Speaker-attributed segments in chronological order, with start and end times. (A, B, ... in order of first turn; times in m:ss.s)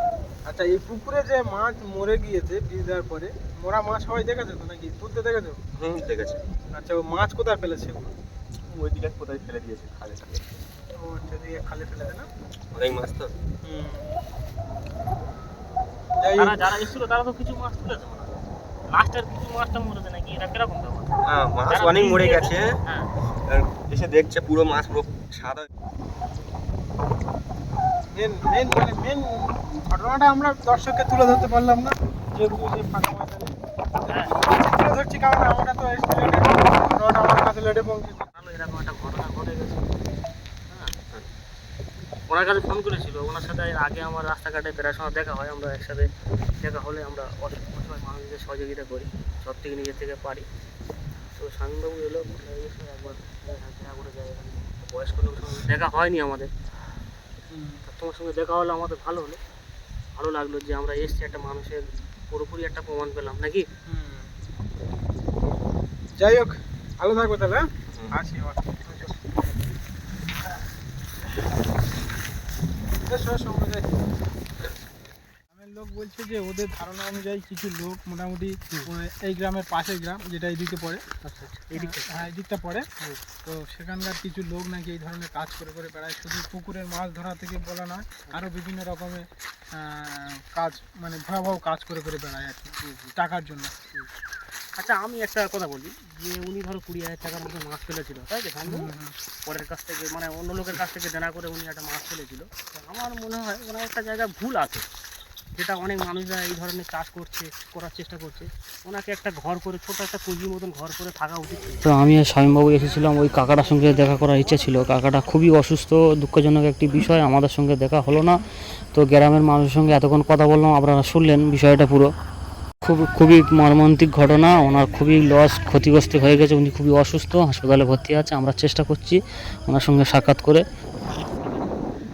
0:00.5-0:05.6 A
0:05.8-0:06.4 B
0:06.7-0:08.1 A
0:08.7-0:10.4 B
0:11.0-0:12.3 A
0:12.7-0:13.3 B
0:13.6-0:14.0 A
0:16.2-0:16.8 A
0:16.4-0:18.3 C
0:18.9-0:21.2 C
0:21.3-0:22.7 B
0:21.7-0:23.1 C
0:23.5-0:25.7 B
0:28.1-0:38.3 A
0:34.1-0:34.4 C
0:38.3-0:39.9 C
0:42.3-0:46.1 C
0:46.6-0:50.5 C
0:51.4-0:56.5 C
0:57.5-0:57.8 A
0:57.9-0:59.4 C
1:00.2-1:03.7 C
1:03.9-1:04.3 A
1:06.2-1:09.2 A
1:07.9-1:08.2 B
1:13.1-1:13.9 A
1:15.5-1:21.0 A
1:21.2-1:22.3 C
1:21.8-1:22.9 A
1:23.4-1:33.7 A
1:32.8-1:33.1 C
1:34.8-1:38.9 C
1:38.7-1:39.2 A
1:39.5-1:44.8 C
1:45.6-1:58.4 C
1:58.9-2:02.1 C
2:02.8-2:11.8 C